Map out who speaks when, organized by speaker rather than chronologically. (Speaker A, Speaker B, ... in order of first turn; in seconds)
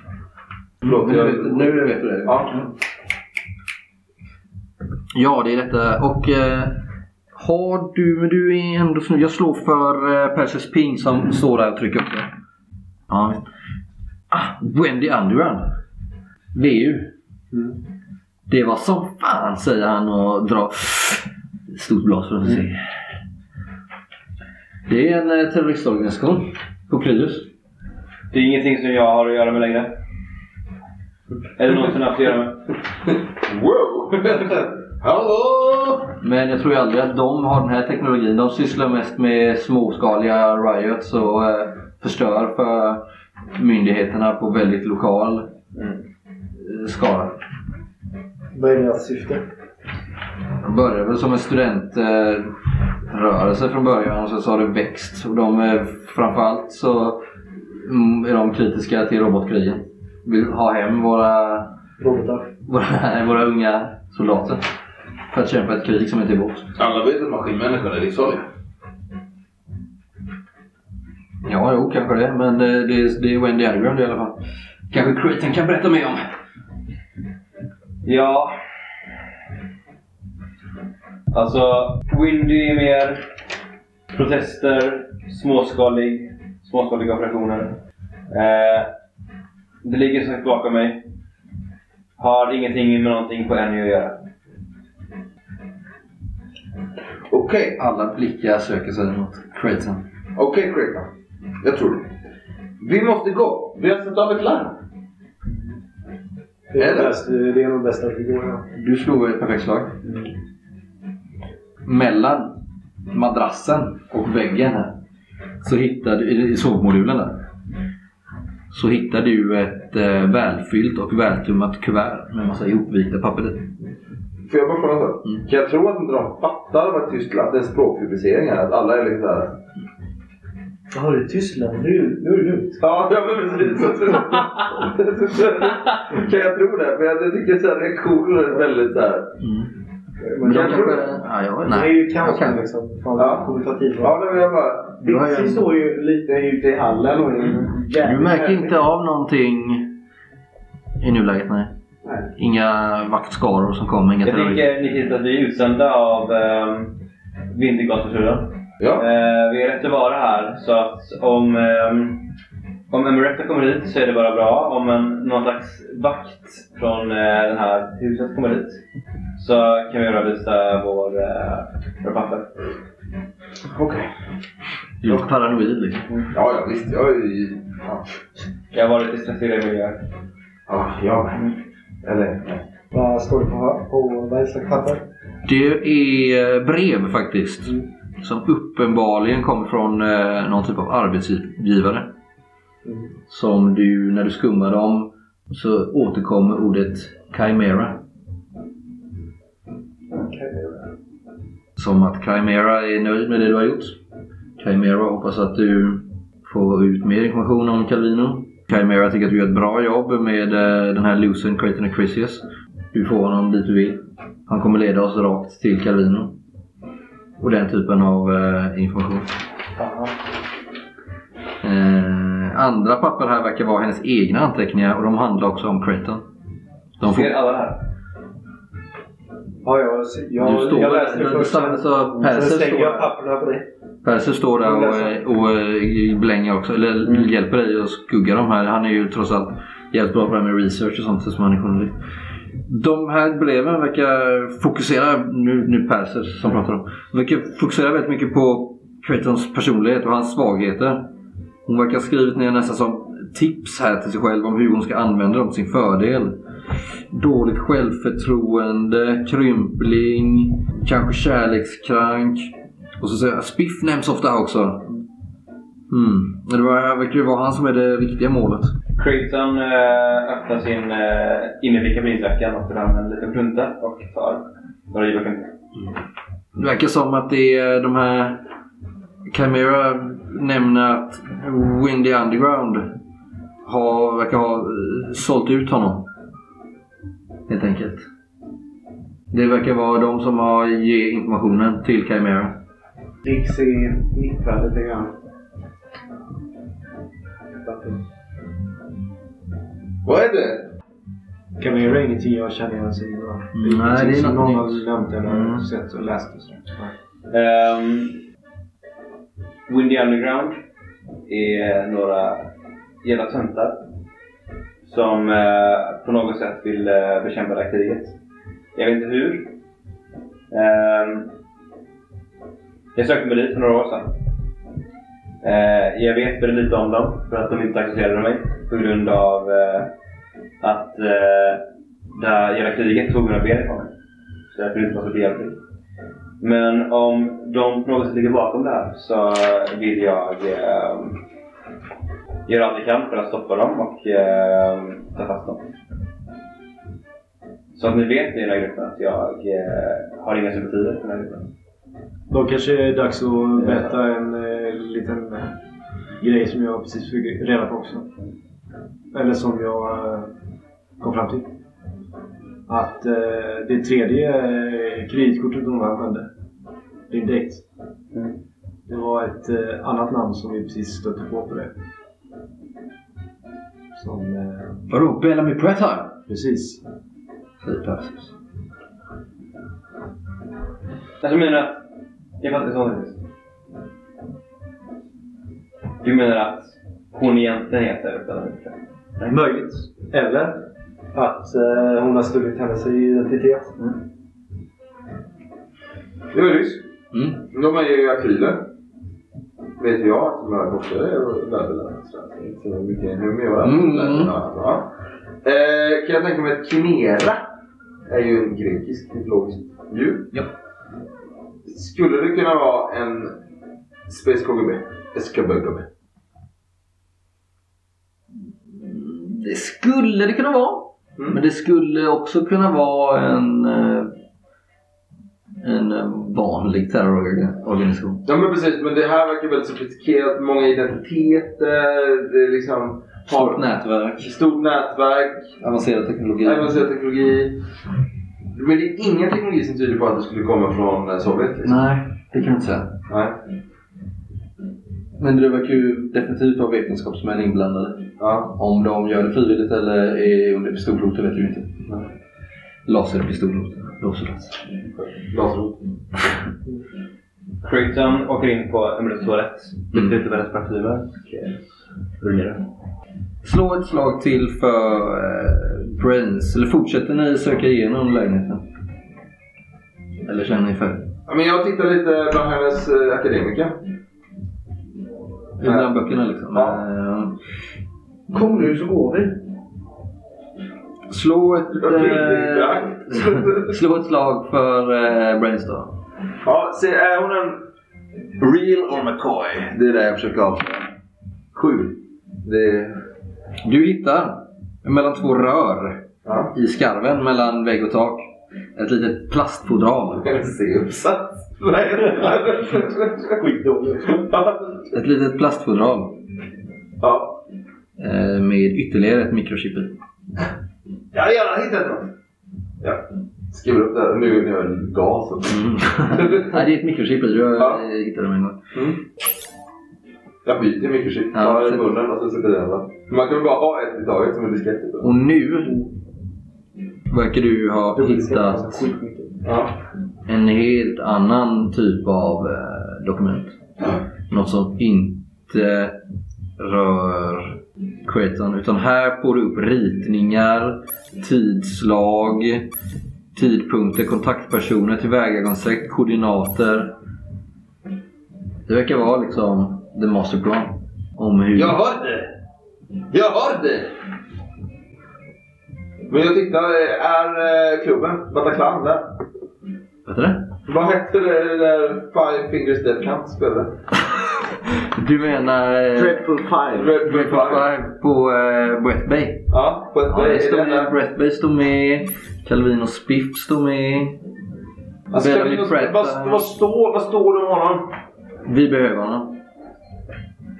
Speaker A: 0.8-2.7, 5.1-6.8, 7.3-12.3, 13.1-13.4, 14.3-15.6, 16.5-17.1, 18.5-22.8, 24.9-27.5, 36.2-43.0, 43.5-45.5, 46.6-47.3, 50.6-52.5, 53.1-61.7, 62.6-64.6, 65.3-66.7, 71.4-74.4, 74.9-76.2, 97.8-100.0, 108.7-110.0, 111.8-112.6, 113.1-115.0, 115.6-117.4, 118.7-123.7, 139.4-139.7, 140.4-142.6, 145.0-145.6, 148.0-149.9, 151.0-151.7, 152.3-154.7, 175.0-176.0, 185.4-192.1, 193.3-198.0, 201.8-204.0, 204.6-216.3, 217.4-219.3, 221.6-226.2, 227.0-227.3, 230.4-233.1, 234.0-241.9, 242.7-251.1, 251.7-256.4, 257.1-264.9, 265.9-268.7, 276.5-278.4, 279.3-282.9, 283.6-286.1, 287.5-288.0, 289.3-292.6, 303.5-305.6, 374.9-376.2, 377.6-378.3, 397.1-397.4, 403.6-404.3, 418.7-424.1, 425.6-428.2, 433.3-434.3, 435.6-436.7, 441.6-442.9, 445.2-451.7, 452.9-454.6, 463.4-468.6, 470.2-471.1, 475.6-477.4, 481.1-485.9, 493.6-500.3, 504.9-506.2, 508.0-509.9, 515.5-518.6, 521.3-521.9, 525.0-525.8, 527.1-528.9, 530.3-533.5, 534.3-536.0, 536.6-542.7, 543.3-546.9, 548.7-551.8, 560.0-560.5, 564.8-566.4, 567.0-569.5, 570.1-574.2, 575.1-576.5, 578.4-579.4
Speaker B: 0.8-2.7, 33.4-36.1, 66.8-68.4, 97.3-97.8, 100.3-101.1, 101.6-102.1, 102.8-104.8, 106.8-107.2, 124.5-129.6, 132.8-139.3, 140.4-141.0, 143.2-145.1, 158.8-159.1, 173.7-174.1, 176.3-178.0, 180.7-182.6, 300.0-300.7, 396.3-396.9, 397.5-398.7, 399.8-404.9, 405.4-407.4, 408.1-410.3, 411.6-413.4, 414.1-415.9, 428.2-433.6, 434.2-435.5, 436.4-437.6, 438.5-441.8, 443.1-443.3, 448.2-448.5, 454.9-455.8, 461.3-461.6, 471.3-473.8, 475.6-475.9, 476.5-476.8, 481.8-483.8, 486.4-487.6, 488.4-490.9, 491.5-493.0, 496.2-496.5, 500.2-503.4, 504.3-504.9, 507.0-507.4, 511.1-512.1, 512.8-516.7, 517.5-517.8, 518.7-519.0, 520.4-525.1, 529.4-529.7, 551.5-552.3, 553.1-553.9, 556.1-559.0, 560.6-563.8, 566.7-567.7, 569.5-570.9, 575.1-577.9
Speaker C: 28.3-29.9, 31.6-32.6, 78.0-78.5, 81.3-83.2, 84.1-87.7, 88.3-88.9, 89.8-91.0, 92.2-94.2, 147.3-147.6, 154.2-156.9, 157.5-162.2, 162.9-168.8, 169.4-172.5, 178.7-180.0, 227.0-227.8, 269.0-275.4, 307.3-308.2, 309.7-310.6, 311.3-312.5, 313.0-313.8, 314.8-318.1, 318.7-319.5, 320.5-321.3, 322.9-324.1, 325.4-329.9, 330.6-331.6, 332.1-333.9, 334.5-335.6, 336.4-341.2, 342.5-345.6, 347.7-351.4, 353.5-354.0, 381.2-381.8, 382.4-383.2, 386.0-389.5, 457.6-461.1, 462.2-462.6
Speaker D: 48.5-49.4, 62.0-62.5, 106.7-108.6, 130.9-132.8, 140.2-141.1, 141.7-144.2, 182.9-185.0, 200.1-200.8, 219.8-220.1, 229.6-233.7, 234.6-235.1, 301.6-306.9, 352.3-355.6, 356.2-358.1, 359.1-360.3, 361.0-361.5, 362.7-366.3, 367.1-367.6, 368.9-371.7, 373.9-374.8, 376.3-376.8, 389.3-393.7, 478.3-479.3, 503.4-504.3, 528.0-529.4
Speaker E: 145.0-148.8, 293.2-295.1, 297.6-298.0, 565.9-567.0